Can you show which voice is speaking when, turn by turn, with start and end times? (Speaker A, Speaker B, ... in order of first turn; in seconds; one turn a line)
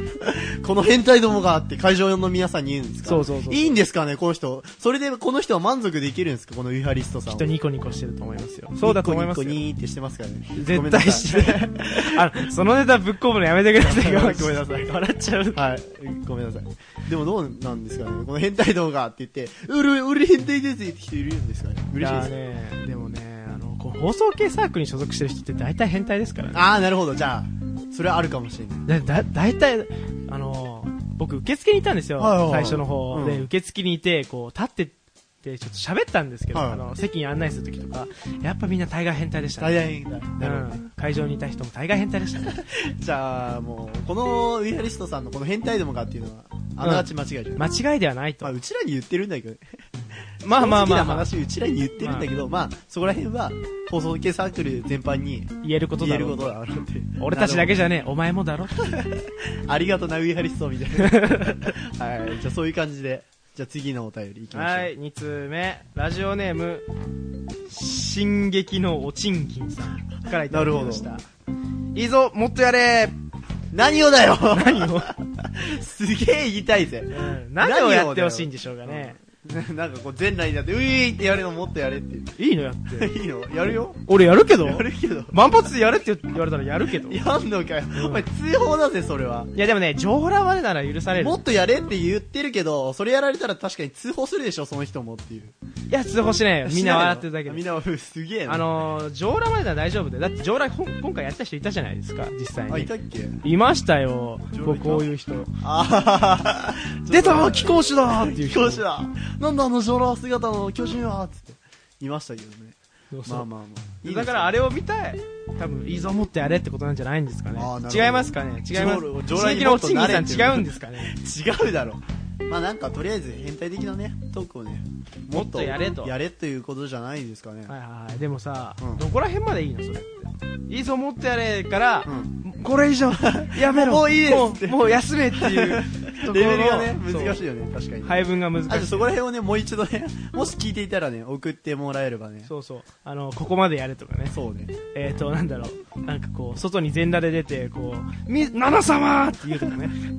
Speaker A: 0.2-7.5
Speaker B: 3.0-3.8
Speaker B: 7.3-9.6
Speaker A: 8.8-12.2
Speaker B: 10.6-15.6
Speaker A: 13.8-14.9
Speaker A: 15.5-22.3
Speaker B: 22.0-26.7
Speaker A: 26.5-28.9
Speaker B: 28.9-39.8
Speaker A: 32.2-33.5
Speaker A: 36.5-36.9
Speaker A: 39.6-40.8
Speaker B: 40.4-42.6
Speaker A: 42.4-47.6
Speaker B: 46.8-48.5
Speaker A: 48.4-49.8
Speaker A: 50.4-57.8
Speaker B: 50.4-51.3
Speaker B: 52.0-52.3
Speaker B: 55.6-56.6
Speaker B: 57.2-59.0
Speaker A: 58.8-64.9
Speaker B: 61.0-61.7
Speaker B: 64.5-66.9
Speaker B: 67.7-71.3
Speaker A: 70.5-71.1
Speaker B: 71.9-73.2
Speaker A: 73.7-82.3
Speaker B: 74.5-75.1
Speaker B: 77.1-79.2
Speaker B: 82.4-83.1
Speaker A: 82.9-85.4
Speaker B: 84.1-87.2
Speaker A: 86.9-89.5
Speaker B: 87.9-88.2
Speaker B: 89.5-91.4
Speaker A: 91.1-95.5
Speaker B: 95.9-97.6
Speaker A: 96.6-98.7
Speaker B: 98.5-102.9
Speaker A: 102.7-103.4
Speaker B: 103.4-105.5
Speaker A: 104.5-114.5
Speaker B: 107.1-108.8
Speaker B: 113.1-113.5
Speaker B: 114.0-121.2
Speaker A: 117.5-127.7
Speaker B: 125.3-126.2
Speaker B: 127.7-137.4
Speaker A: 128.8-129.1
Speaker A: 132.1-132.4
Speaker A: 133.1-142.5
Speaker B: 138.0-139.1
Speaker B: 142.5-144.4
Speaker A: 144.3-144.8
Speaker B: 144.9-150.0